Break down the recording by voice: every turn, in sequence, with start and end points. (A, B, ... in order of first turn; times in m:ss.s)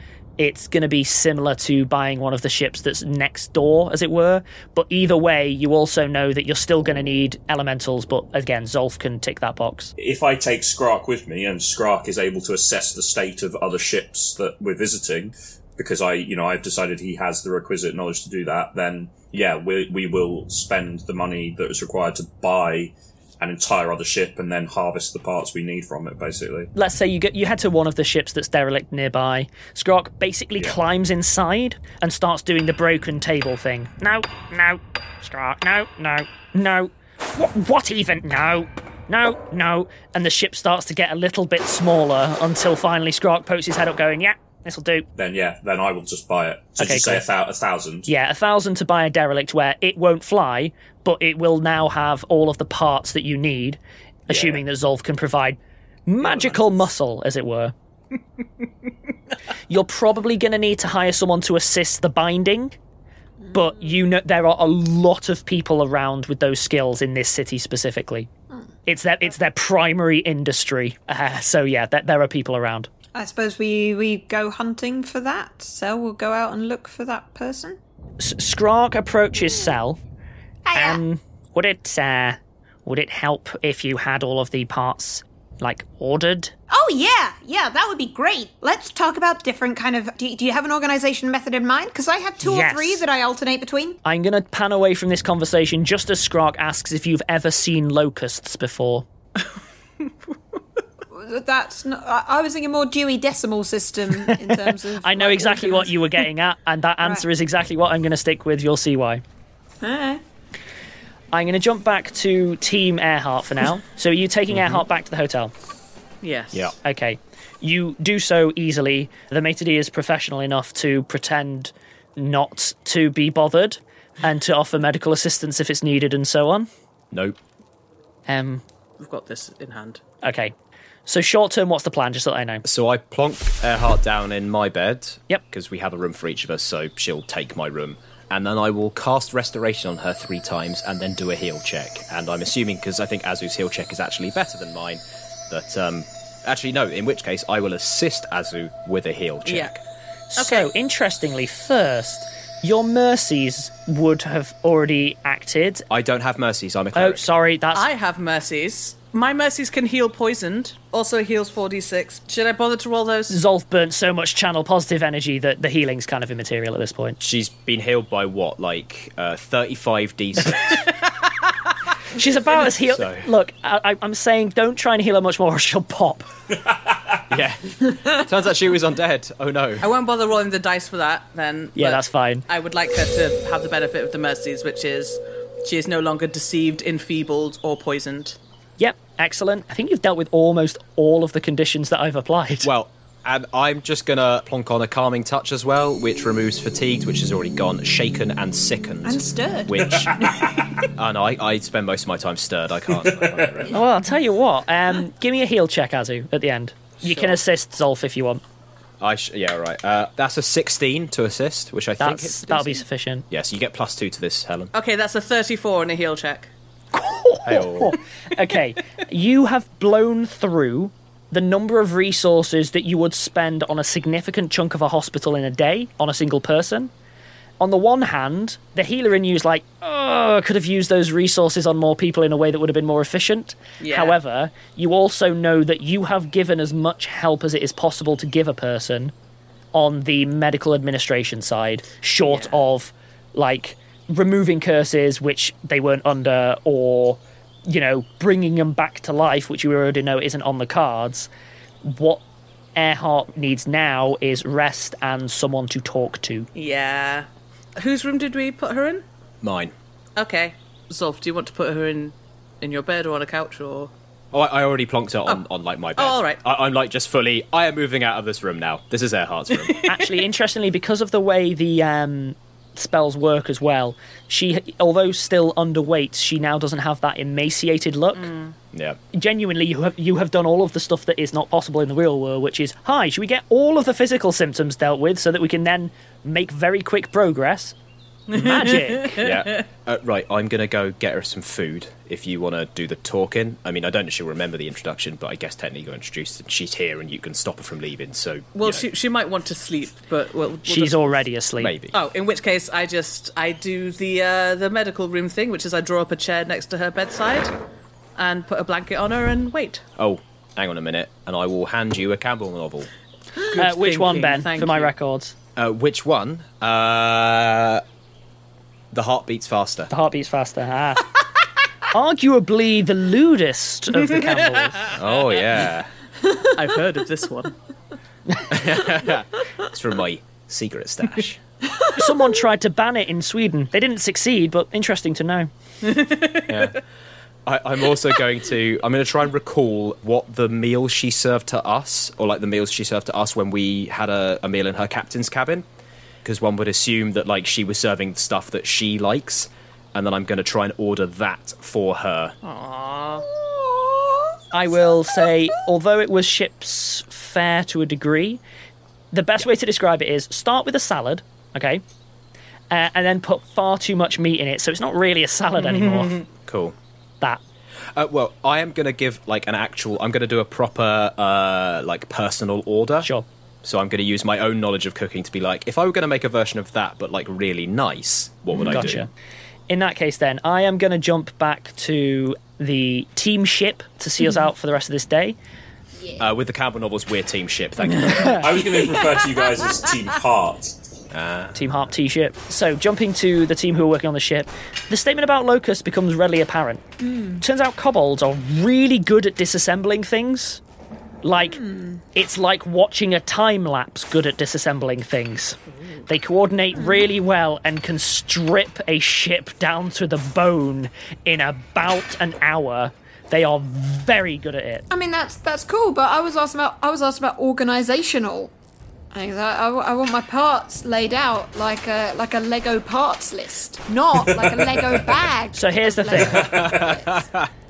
0:00.4-0:09.9 A
0:10.0-0:26.7 B
0:26.8-0:45.1 A
0:45.2-0:48.1 B
0:46.8-0:47.2 A
0:48.1-0:57.7 A
0:54.3-0:54.6 B
0:59.7-1:02.8 A
1:03.5-1:08.3 A
1:08.9-1:12.9 A
1:13.1-1:17.8 C
1:18.2-1:20.0 A
1:20.6-1:21.0 C
1:20.7-1:26.5 A
1:26.7-1:34.0 C
1:32.4-1:33.0 A
1:34.0-1:39.1 A
1:41.1-1:46.0 C
1:45.0-1:49.2 A
1:49.8-1:50.2 C
1:51.3-1:55.5 A
1:54.5-1:54.8 D
1:56.2-1:56.7 E
1:56.8-2:06.7 A
2:07.1-2:07.4 D
2:08.3-2:08.6 A
2:09.0-2:10.0 E
2:10.2-2:10.5 A
2:11.1-2:12.6 A
2:12.6-2:29.8 D
2:29.4-2:29.7 E
2:30.3-2:35.8 A
2:30.4-2:30.7 E
2:35.9-2:37.3 D
2:37.0-2:37.9 A
2:37.7-2:43.4 E
2:43.3-2:47.2 A
2:47.2-2:50.8 D
2:50.6-2:51.3 E
2:52.1-2:56.3 A
2:52.9-2:53.3 D
2:57.3-2:59.9 D
2:59.8-3:08.4 E
3:01.8-3:02.4 A
3:08.8-3:12.7 A
3:12.6-3:20.2 D
3:19.0-3:20.3 C
3:21.0-3:23.8 D
3:23.0-3:23.6 B
3:23.7-3:28.4 A
3:27.0-3:27.4 E
3:29.0-3:34.7 D
3:32.0-3:33.3 A
3:34.7-3:36.5 E
3:36.9-3:46.9 A
3:37.5-3:38.0 D
3:47.6-3:59.1 A
3:53.8-3:54.2 E
3:59.7-4:11.3 A
4:02.3-4:02.6 E
4:11.8-4:12.2 A
4:12.8-4:16.5 A
4:16.6-4:19.0 E
4:19.4-4:19.7 D
4:20.2-4:23.9 E
4:24.3-4:29.8 D
4:26.0-4:26.4 E
4:29.6-4:30.0 E
4:29.9-4:38.3 A
4:38.2-4:38.6 E
4:38.7-4:39.0 D
4:39.1-4:47.8 A
4:48.3-4:49.7 E
4:48.3-4:49.2 A
4:49.2-4:58.8 D
4:58.6-5:01.2 E
5:00.7-5:01.7 A
5:01.6-5:01.9 D
5:01.9-5:07.5 E
5:08.2-5:09.8 E
5:10.0-5:12.9 D
5:13.4-5:14.9 E
5:13.6-5:15.4 A
5:15.6-5:17.8 D
5:18.9-5:19.9 D
5:19.9-5:21.1 A
5:21.9-5:24.9 A
5:23.9-5:25.6 E
5:24.9-5:25.9 D
5:26.5-5:27.6 E
5:28.5-5:31.4 D
5:31.8-5:32.1 C
5:32.0-5:35.5 A
5:35.8-5:36.8 E
5:36.5-5:36.8 D
5:37.5-5:45.7 D
5:46.2-5:52.4 D
5:52.4-5:53.3 E
5:53.3-5:54.4 C
5:54.5-5:58.4 A
5:59.1-6:01.8 A
6:02.7-6:06.2 A
6:05.6-6:06.2 E
6:06.5-6:06.8 D
6:08.0-6:13.1 D
6:13.6-6:19.1 D
6:18.7-6:19.1 A
6:19.7-6:25.4 A
6:26.2-6:28.4 D
6:27.8-6:28.6 A
6:28.4-6:30.8 B
6:31.1-6:31.6 D
6:31.5-6:36.8 A
6:37.0-6:37.4 C
6:37.4-6:40.6 A
6:41.2-6:41.6 A
6:41.5-6:42.0 C
6:42.1-6:54.9 A
6:46.8-6:47.0 C
6:54.9-6:58.5 C
6:59.1-7:07.2 C
7:04.2-7:05.2 D
7:05.5-7:06.5 A
7:06.2-7:07.5 D
7:06.4-7:06.8 B